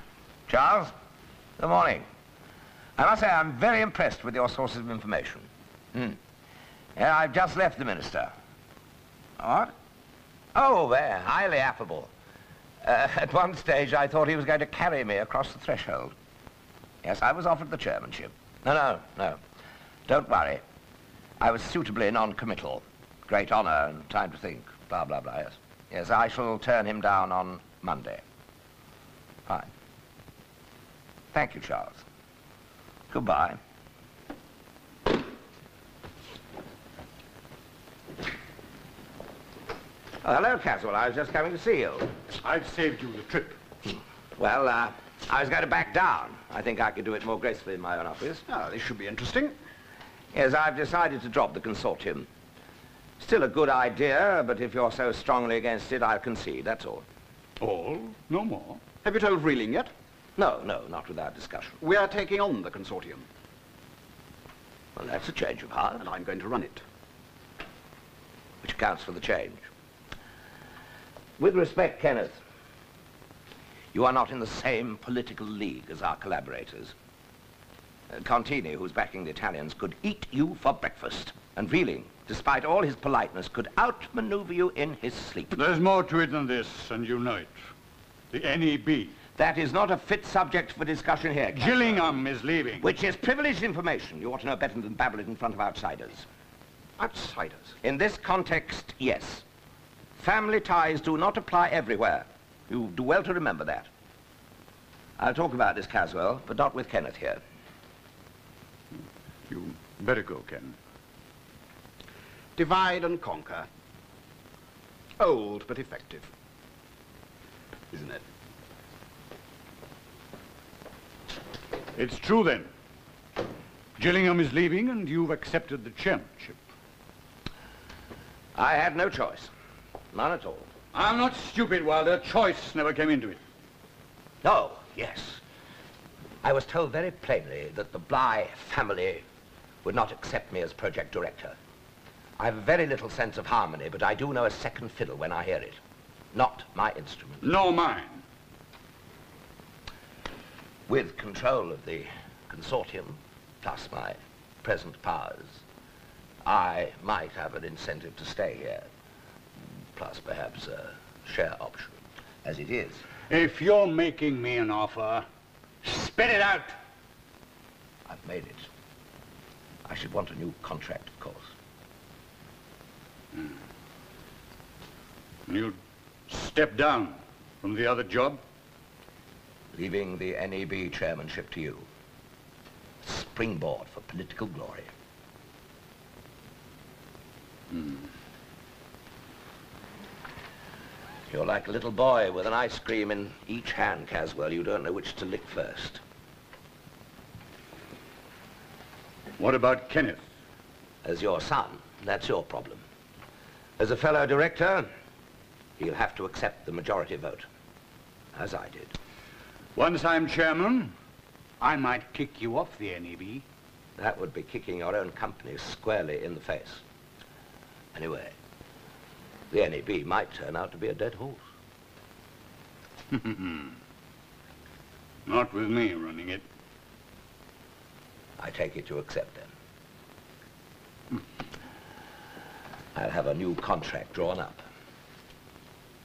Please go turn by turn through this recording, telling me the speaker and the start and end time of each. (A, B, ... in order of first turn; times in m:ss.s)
0:00.5-0:00.9 A
0:01.6-0:02.0 A
0:03.0-0:06.2 A
0:07.0-0:08.3 A
0:09.4-0:09.7 A
0:10.5-0:12.1 A
0:12.8-0:16.1 A
0:17.0-0:19.4 A
0:20.1-0:20.6 A
0:21.4-0:28.2 A
0:31.3-0:32.0 A
0:33.1-0:33.6 A
0:40.2-0:42.1 A
0:42.4-0:43.6 B
0:44.4-0:48.4 A
0:48.5-0:49.5 C
0:50.3-0:52.3 A
0:53.2-0:57.0 A
0:57.6-0:58.8 B
0:59.0-0:59.9 C
1:00.4-1:01.8 A
1:01.8-1:03.2 C
1:05.0-1:06.0 A
1:06.0-1:06.8 C
1:08.6-1:09.7 A
1:11.4-1:12.4 A
1:13.9-1:16.9 A
1:18.1-1:25.6 A
1:25.5-1:27.6 B
1:28.3-1:29.1 B
1:29.4-1:32.2 A
1:31.5-1:32.9 B
1:32.8-1:36.3 A
1:37.0-1:37.8 C
1:37.8-1:39.4 A
1:40.2-1:43.9 A
1:45.2-1:47.4 A
1:49.5-1:50.8 B
1:52.6-1:53.7 C
1:55.2-1:56.3 C
1:57.9-1:58.2 C
2:01.9-2:02.7 B
2:04.0-2:06.6 B
2:08.5-2:09.5 A
2:10.1-2:10.7 A
2:10.9-2:13.4 B
2:14.4-2:15.4 A
2:16.4-2:19.2 A
2:19.8-2:21.6 A
2:22.4-2:25.8 A
2:26.3-2:27.4 A
2:27.4-2:28.2 B
2:30.9-2:35.6 A
2:36.4-2:38.9 A
2:40.0-2:43.0 A
2:43.3-2:45.2 B
2:45.8-2:46.8 B
2:48.1-2:48.7 A
2:49.8-2:51.5 A
2:55.5-2:55.8 B
2:56.3-2:58.4 B
2:59.7-3:01.9 A
3:03.0-3:04.9 A
3:07.7-3:08.0 B
3:11.3-3:16.0 A
3:19.4-3:20.2 B
3:21.0-3:22.8 A
3:23.8-3:24.9 A
3:25.8-3:27.4 A
3:28.3-3:28.9 A
3:29.8-3:30.9 B
3:31.6-3:33.4 B
3:34.0-3:36.8 A
3:37.9-3:38.3 A
3:39.5-3:41.4 A
3:43.1-3:43.8 B
3:45.2-3:46.4 B
3:48.4-3:49.5 A
3:52.9-3:54.6 A